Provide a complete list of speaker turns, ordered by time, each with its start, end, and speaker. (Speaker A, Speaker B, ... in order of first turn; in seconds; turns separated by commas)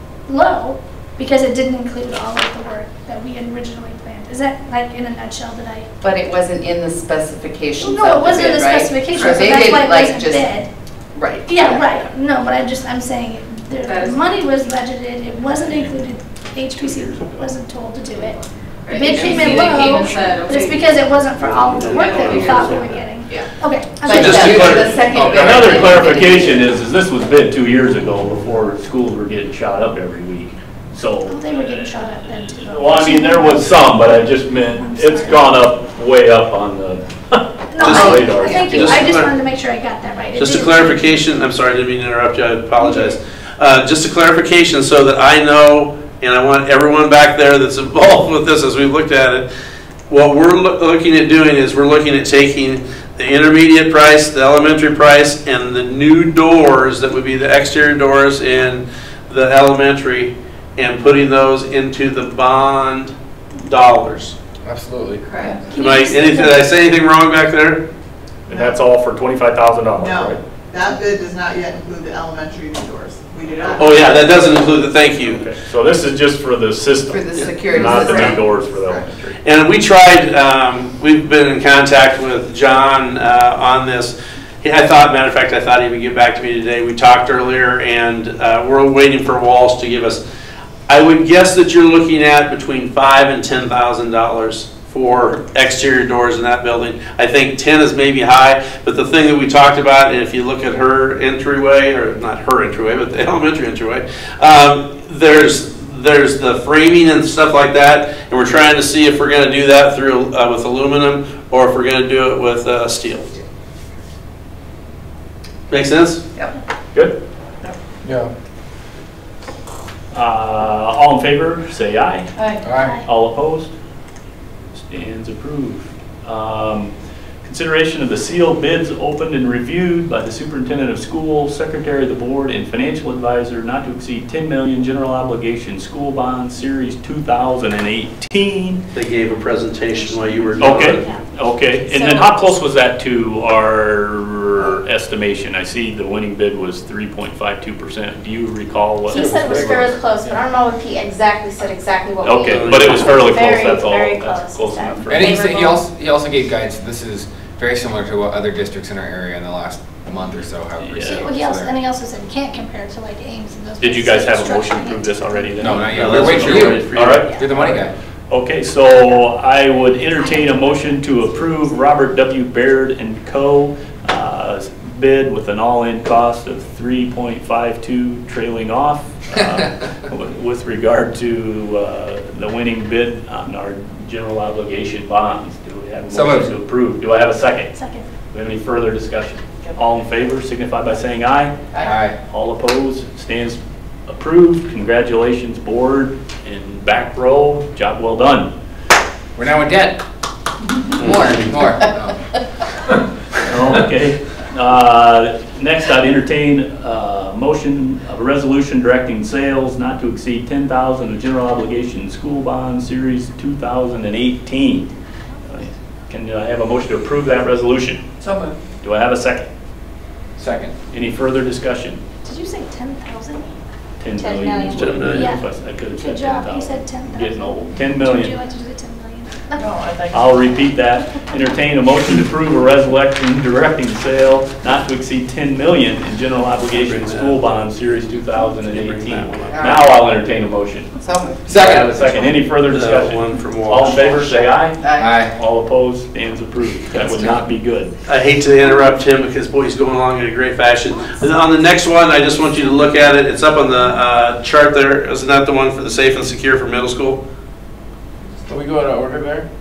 Speaker A: 0.3-5.9, Speaker B: 6.0-10.5, Speaker A: 7.8-10.7, Speaker B: 11.1-12.0, Speaker A: 11.5-18.4, Speaker B: 13.9-14.2, Speaker C: 16.7-17.5, Speaker B: 18.8-20.9, Speaker A: 18.9-24.8, Speaker D: 21.4-22.8, Speaker B: 21.9-22.7, Speaker B: 24.1-26.8, Speaker E: 24.1-25.1, Speaker C: 24.2-38.6, Speaker A: 31.3-33.9, Speaker A: 34.4-35.5, Speaker A: 37.7-41.0, Speaker D: 37.8-39.3, Speaker B: 38.6-38.9, Speaker D: 40.3-49.5, Speaker A: 42.8-43.1, Speaker D: 50.1-64.3, Speaker E: 64.6-65.2, Speaker B: 65.2-65.6, Speaker A: 65.7-66.6, Speaker D: 65.7-67.8, Speaker C: 68.5-70.4, Speaker F: 70.0-74.6, Speaker D: 73.8-75.4, Speaker C: 75.1-79.4, Speaker B: 77.1-78.4, Speaker F: 77.8-79.0, Speaker D: 79.4-90.2, Speaker D: 90.9-113.4, Speaker D: 115.7-116.3, Speaker E: 118.0-118.3, Speaker C: 120.1-122.3, Speaker E: 122.6-123.0, Speaker A: 122.7-123.0, Speaker C: 122.9-123.7, Speaker C: 124.8-126.9, Speaker C: 127.4-138.8, Speaker D: 138.9-141.1, Speaker A: 140.2-141.1, Speaker C: 140.6-149.7, Speaker G: 141.9-142.3, Speaker G: 149.1-155.8, Speaker E: 149.1-150.4, Speaker C: 152.2-155.4, Speaker D: 152.5-153.3, Speaker E: 155.1-161.7, Speaker C: 160.8-161.2, Speaker A: 161.0-165.8, Speaker C: 163.8-187.7, Speaker E: 165.6-167.9, Speaker D: 165.9-167.2, Speaker A: 170.2-171.5, Speaker E: 186.1-186.5, Speaker A: 187.6-188.1, Speaker C: 188.3-198.5, Speaker E: 191.8-192.2, Speaker E: 199.3-200.0, Speaker D: 201.0-201.4, Speaker E: 201.0-202.2, Speaker C: 203.4-214.9, Speaker C: 215.4-218.0, Speaker C: 218.8-219.5, Speaker E: 220.4-220.7, Speaker C: 220.9-222.0, Speaker A: 222.2-223.5, Speaker C: 224.0-228.4, Speaker G: 224.2-224.9, Speaker D: 224.7-225.4, Speaker A: 225.1-225.4, Speaker A: 226.0-229.7, Speaker F: 229.6-230.0, Speaker C: 230.1-240.9, Speaker D: 236.7-237.4, Speaker D: 238.5-239.8, Speaker B: 239.5-240.0, Speaker B: 240.9-241.6, Speaker E: 241.5-242.0, Speaker C: 241.5-247.9, Speaker D: 242.7-243.9, Speaker B: 244.7-245.3, Speaker E: 245.0-245.3, Speaker B: 247.0-247.3, Speaker D: 248.0-257.2, Speaker E: 258.5-259.4